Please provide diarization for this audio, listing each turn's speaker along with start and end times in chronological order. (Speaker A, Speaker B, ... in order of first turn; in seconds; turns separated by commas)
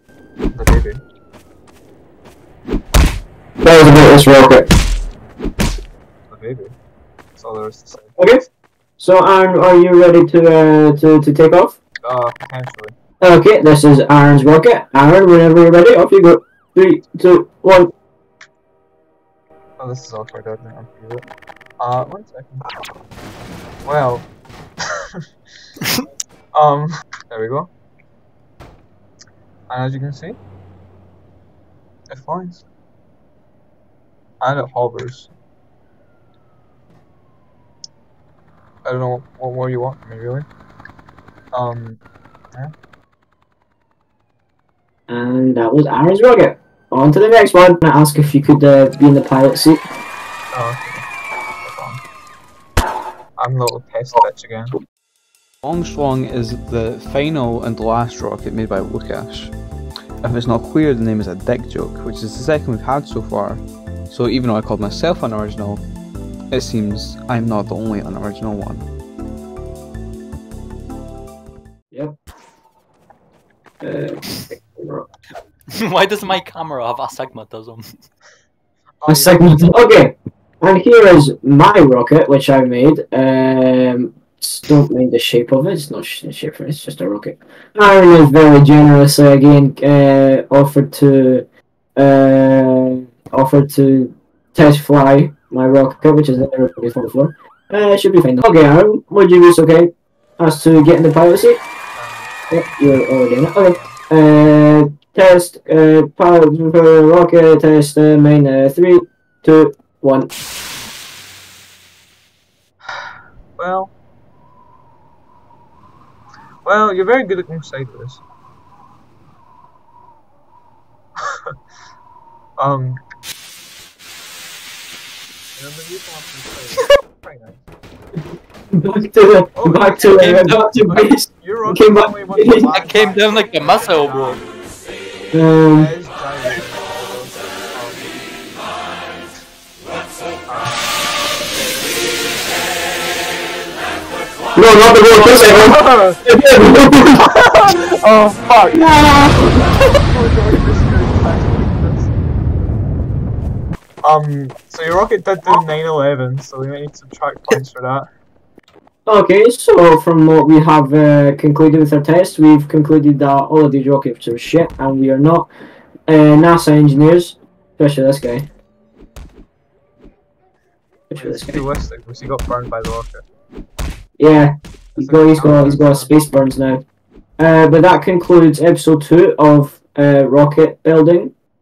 Speaker A: 0.5-1.0, Speaker B: 3.6-4.7, Speaker A: 6.3-6.7, Speaker A: 7.4-8.2, Speaker B: 8.2-8.4, Speaker B: 9.0-11.8, Speaker A: 12.0-12.9, Speaker B: 13.2-17.9, Speaker A: 19.8-21.3, Speaker A: 21.8-22.7, Speaker A: 23.9-24.3, Speaker A: 26.5-27.7, Speaker A: 29.7-30.4, Speaker A: 32.1-32.6, Speaker A: 34.4-35.3, Speaker A: 38.9-40.5, Speaker A: 41.5-42.0, Speaker B: 45.1-49.9, Speaker A: 50.5-51.0, Speaker A: 51.6-52.0, Speaker A: 53.4-54.8, Speaker C: 55.6-59.5, Speaker C: 60.2-65.8, Speaker C: 66.5-68.9, Speaker B: 73.8-75.1, Speaker D: 75.7-77.9, Speaker A: 79.0-79.9, Speaker B: 79.1-91.5, Speaker B: 92.0-101.6, Speaker A: 102.0-102.6, Speaker B: 102.5-110.3, Speaker A: 103.6-104.0, Speaker A: 113.6-113.9, Speaker A: 116.7-118.2, Speaker A: 121.2-121.5, Speaker A: 122.6-123.0, Speaker A: 125.6-127.7, Speaker B: 128.8-132.8, Speaker A: 129.6-134.4, Speaker D: 130.2-130.6, Speaker D: 132.7-134.4, Speaker B: 135.3-135.9, Speaker A: 135.7-138.2, Speaker A: 140.5-141.2, Speaker B: 144.6-147.2, Speaker A: 145.1-146.2, Speaker A: 147.1-149.3, Speaker A: 150.0-152.2, Speaker A: 154.0-158.1, Speaker B: 159.1-165.5, Speaker B: 166.1-168.5, Speaker B: 171.1-171.7, Speaker A: 171.1-173.2, Speaker B: 174.2-176.8, Speaker A: 175.0-176.1, Speaker B: 177.4-181.3